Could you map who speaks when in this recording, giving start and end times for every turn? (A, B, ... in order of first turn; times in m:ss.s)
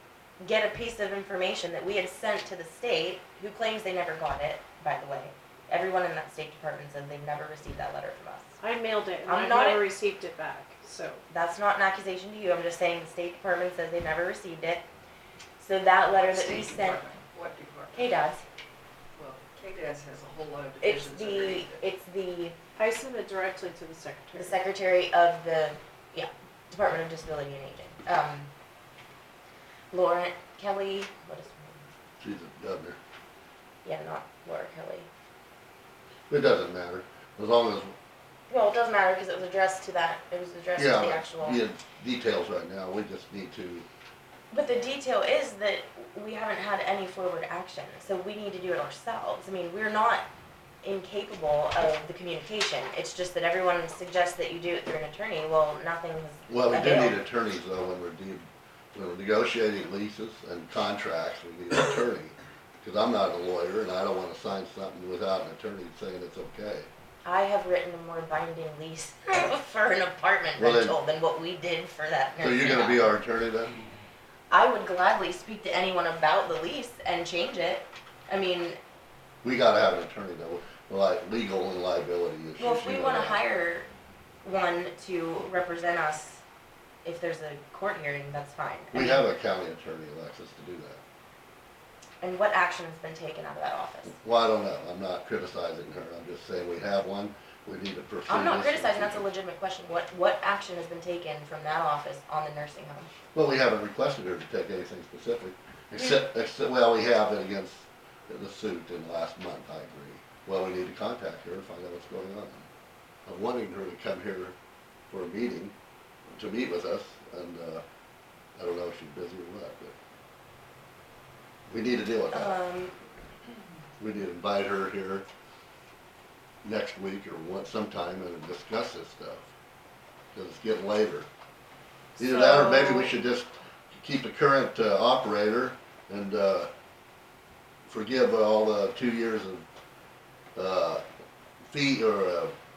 0:00.4-0:08.6 A
0:08.6-0:11.2 B
0:09.2-0:09.8 A
0:11.3-0:14.8 A
0:15.6-0:17.0 A
0:16.3-0:17.9 C
0:17.9-0:18.4 A
0:19.2-0:21.7 C
0:20.8-0:22.5 A
0:22.8-0:24.6 B
0:24.4-0:28.5 A
0:29.9-0:31.8 A
0:32.2-0:33.0 D
0:33.8-0:35.1 A
0:36.3-0:37.9 D
0:38.5-0:41.6 A
0:40.8-0:43.8 D
0:44.5-0:50.3 A
0:50.8-0:57.2 A
0:56.5-1:06.9 D
1:07.2-1:13.1 A
1:10.6-1:11.0 D
1:12.4-1:13.8 D
1:14.5-1:18.8 A
1:19.4-1:23.4 D
1:22.6-1:23.9 A
1:24.4-1:26.4 A
1:27.0-1:29.2 A
1:28.9-1:31.0 D
1:32.2-1:34.2 A
1:34.2-1:39.3 D
1:38.3-1:43.1 A
1:43.3-1:52.7 D
1:53.2-1:54.5 D
1:55.1-1:55.7 D
1:56.3-1:57.8 D
1:58.6-1:59.9 D
2:01.7-2:02.6 D
2:02.3-2:02.9 A
2:04.0-2:05.2 D
2:06.6-2:09.5 D
2:10.3-2:11.3 D
2:12.2-2:13.2 A
2:12.2-2:16.7 D
2:17.8-2:19.6 D
2:20.5-2:21.0 D
2:21.7-2:22.5 D